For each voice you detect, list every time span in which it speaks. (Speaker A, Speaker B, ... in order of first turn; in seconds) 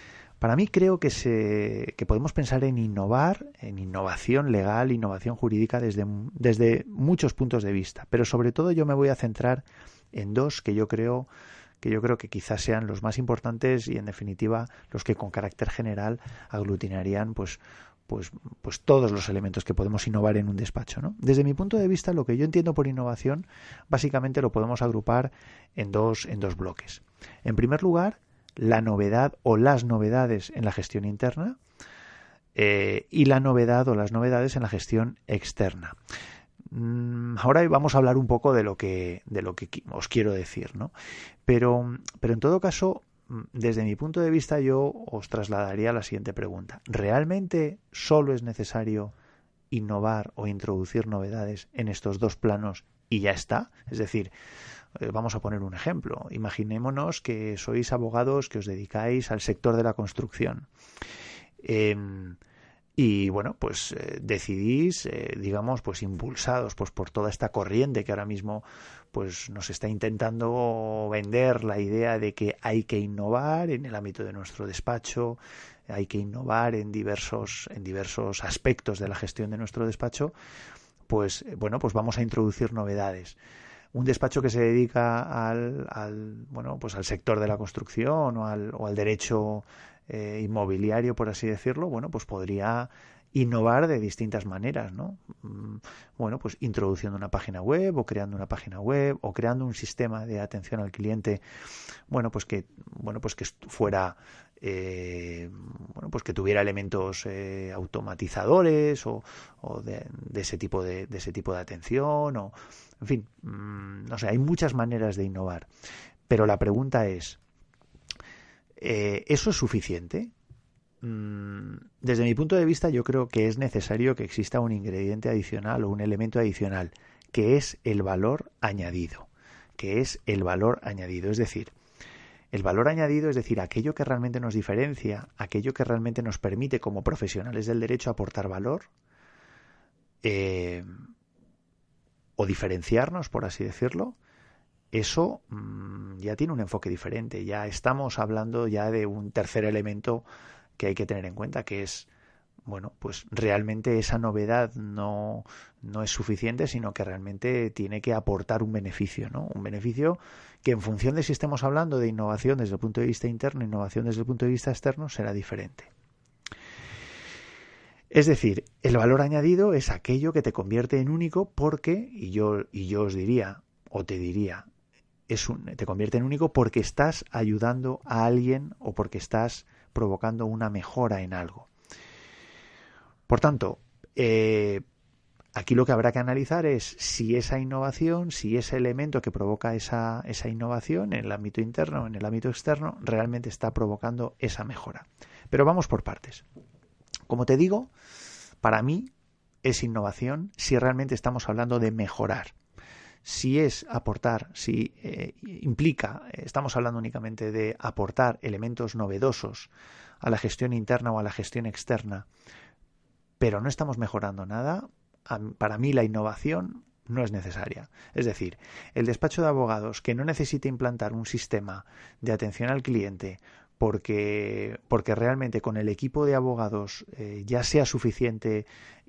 Speaker A: 0.4-11.3, 11.8-31.6, 32.5-36.0, 36.7-40.9, 41.5-49.1, 49.7-54.3, 55.0-60.7, 61.6-62.4, 63.0-80.3, 81.1-83.4, 83.9-101.4, 102.1-115.7, 116.3-117.4, 118.8-120.3, 121.0-131.7, 132.5-138.9, 140.2-140.9, 142.4-144.2, 144.9-150.2, 150.8-152.1, 152.7-165.9, 168.1-174.7, 175.3-181.7, 183.3-184.8, 185.5-196.4, 197.3-197.9, 198.6-199.1, 199.6-202.5, 203.2-209.7, 210.2-212.3, 213.4-228.7